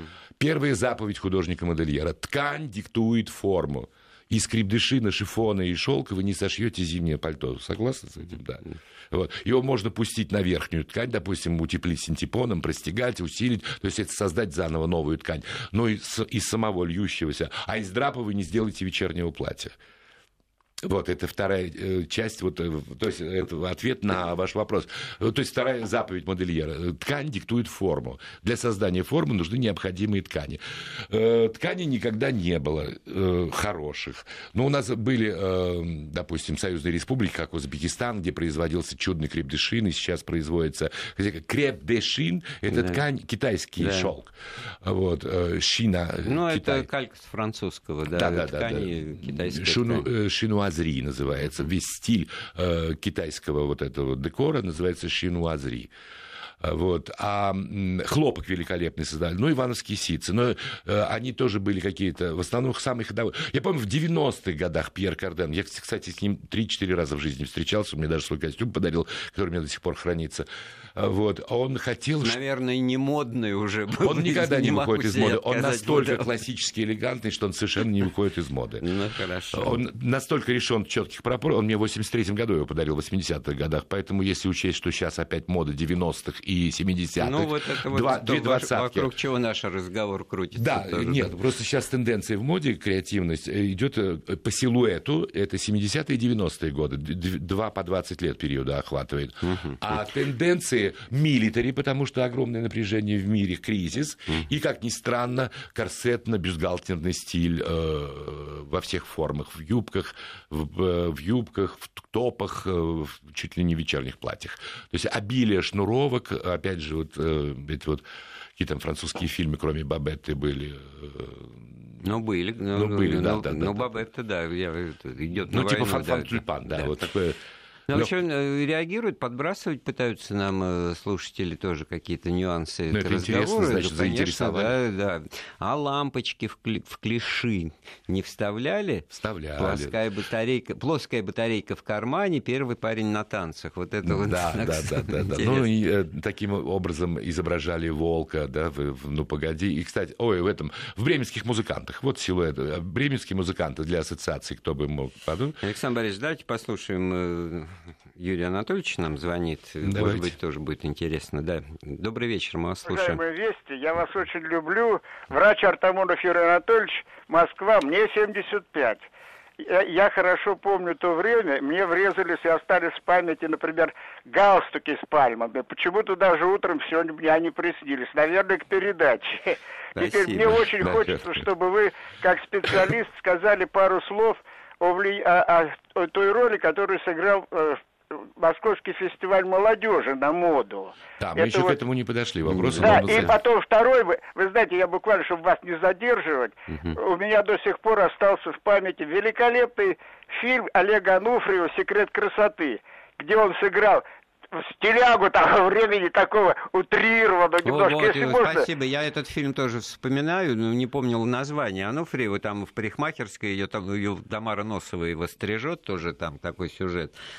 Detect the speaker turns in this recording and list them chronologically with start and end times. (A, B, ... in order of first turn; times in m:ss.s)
0:00.4-0:19.8 A
0:20.8-0:46.9 A
0:42.7-0:43.0 B
0:43.8-0:44.1 B
0:46.2-0:50.1 B
0:48.1-0:55.9 A
0:56.6-1:12.4 A
1:12.2-1:16.3 B
1:14.0-1:18.8 A
1:18.8-1:19.8 B
1:19.5-1:29.1 A
1:27.2-1:31.3 B
1:30.6-1:58.0 A
1:39.4-1:39.8 B
1:58.6-2:01.7 A
2:02.0-2:06.9 B
2:02.7-2:04.0 A
2:05.4-2:07.4 A
2:07.9-2:25.7 B
2:07.9-2:08.2 A
2:12.9-2:14.7 A
2:19.1-2:20.0 A
2:24.0-2:35.6 A
2:35.6-2:43.2 B
2:39.8-2:40.4 A
2:42.9-2:49.1 C
2:49.6-3:11.8 C
3:00.0-3:00.7 B
3:00.8-3:01.5 A
3:11.2-3:13.4 A
3:12.5-3:13.3 B
3:12.8-3:28.7 C
3:27.6-3:37.2 B